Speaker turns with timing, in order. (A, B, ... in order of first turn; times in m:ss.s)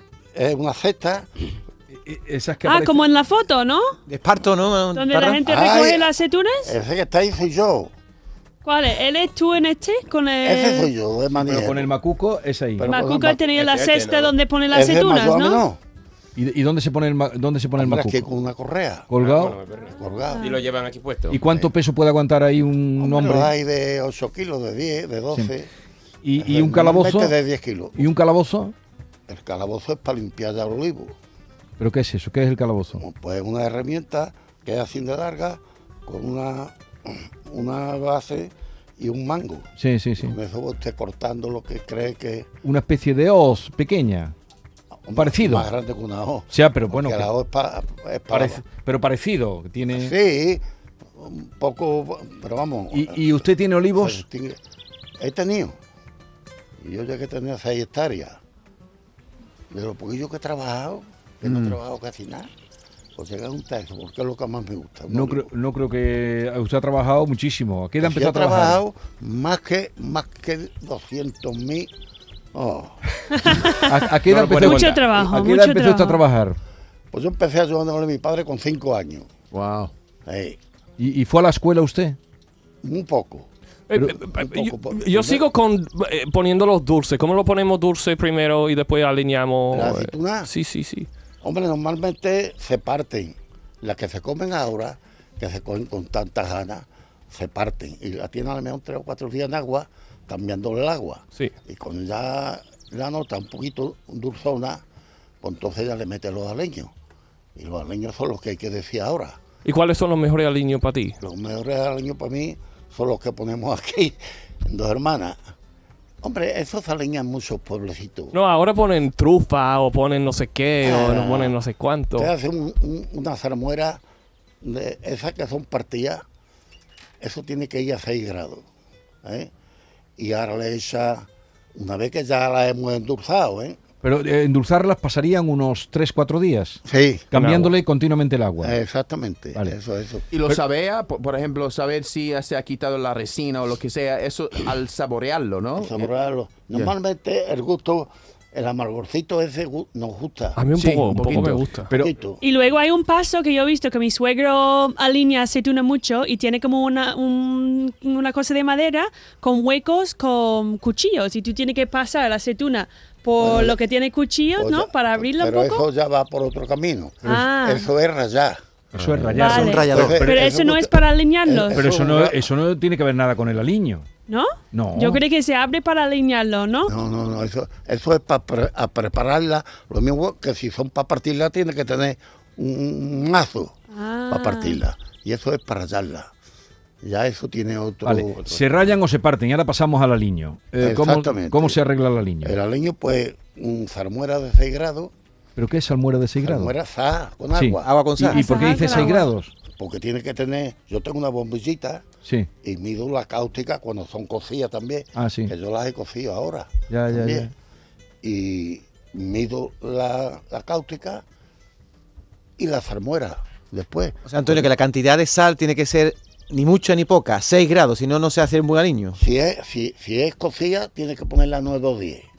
0:00.3-0:01.3 A
0:01.9-0:03.0 B
0:02.6-0:03.9 C
0:04.1-0:05.4 D
0:04.9-0:06.7 C
0:05.4-0:06.1 A
0:06.6-0:07.9 A
0:08.6-0:10.9 C
0:10.4-0:11.9 A
0:11.4-0:12.9 B
0:12.8-0:13.5 A
0:12.8-0:15.6 C
0:13.5-0:14.3 E
0:14.7-0:15.8 A
0:16.4-0:18.2 B
0:17.8-0:19.1 A
0:19.1-0:19.6 B
0:19.2-0:21.4 E
0:19.9-0:20.6 A
0:20.3-0:20.6 C
0:21.3-0:23.5 B
0:21.4-0:21.7 A
0:23.0-0:25.7 A
0:26.2-0:27.4 B
0:26.4-0:28.1 A
0:28.0-0:28.7 B
0:29.3-0:31.2 A
0:31.8-0:33.0 B
0:33.0-0:42.5 A
0:39.8-0:40.3 B
0:42.6-0:44.3 B
0:45.0-0:48.6 A
0:45.2-0:45.7 B
0:46.5-0:47.3 B
0:48.3-0:50.1 B
0:49.9-0:50.6 A
0:51.2-0:54.6 A
0:52.9-0:54.2 B
0:55.2-0:55.8 A
0:56.8-0:58.4 A
0:59.7-1:02.5 A
1:01.4-1:01.8 F
1:03.2-1:05.5 A
1:05.1-1:08.8 B
1:08.0-1:11.9 A
1:12.5-1:13.0 A
1:13.3-1:16.2 C
1:13.8-1:16.6 B
1:14.4-1:14.8 F
1:17.1-1:19.3 A
1:19.5-1:19.9 F
1:20.2-1:20.6 A
1:21.0-1:22.2 B
1:22.8-1:23.5 A
1:23.9-1:31.1 G
1:24.3-1:25.5 A
1:29.7-1:30.5 A
1:31.4-1:44.8 A
1:45.4-1:46.9 A
1:47.6-1:49.4 A
1:49.6-1:51.2 G
1:51.2-1:55.4 A
1:56.2-1:58.3 A
1:58.3-2:02.3 G
2:00.8-2:01.6 A
2:02.1-2:04.0 A
2:04.6-2:06.2 A
2:07.2-2:08.6 A
2:09.2-2:09.5 A
2:10.2-2:13.8 A
2:14.0-2:18.8 B
2:16.8-2:17.2 A
2:17.3-2:17.7 G
2:18.6-2:20.2 A
2:20.3-2:26.1 F
2:25.8-2:30.6 A
2:30.6-2:31.9 G
2:30.7-2:31.8 F
2:31.9-2:32.4 A
2:32.4-2:45.8 C
2:43.4-2:43.8 A
2:44.5-2:48.6 A
2:47.2-2:47.9 C
2:48.9-2:50.4 B
2:49.0-2:50.2 D
2:49.3-2:51.8 C
2:49.9-2:52.4 A
2:51.7-2:54.1 B
2:54.3-2:56.9 C
2:54.7-2:55.2 B
2:56.9-3:03.8 A
3:03.9-3:04.8 C
3:04.3-3:06.3 A
3:07.0-3:08.6 A
3:08.0-3:12.5 B
3:10.8-3:11.8 A
3:12.4-3:15.1 A
3:15.6-3:16.7 B
3:16.4-3:17.9 A
3:17.5-3:19.5 B
3:17.8-3:18.4 D
3:18.3-3:19.3 C
3:19.7-3:22.0 A
3:22.6-3:27.5 A
3:25.2-3:25.5 B
3:26.9-3:27.5 B
3:28.2-3:31.2 A
3:32.6-3:34.6 A
3:34.2-3:39.2 D
3:39.2-3:42.3 A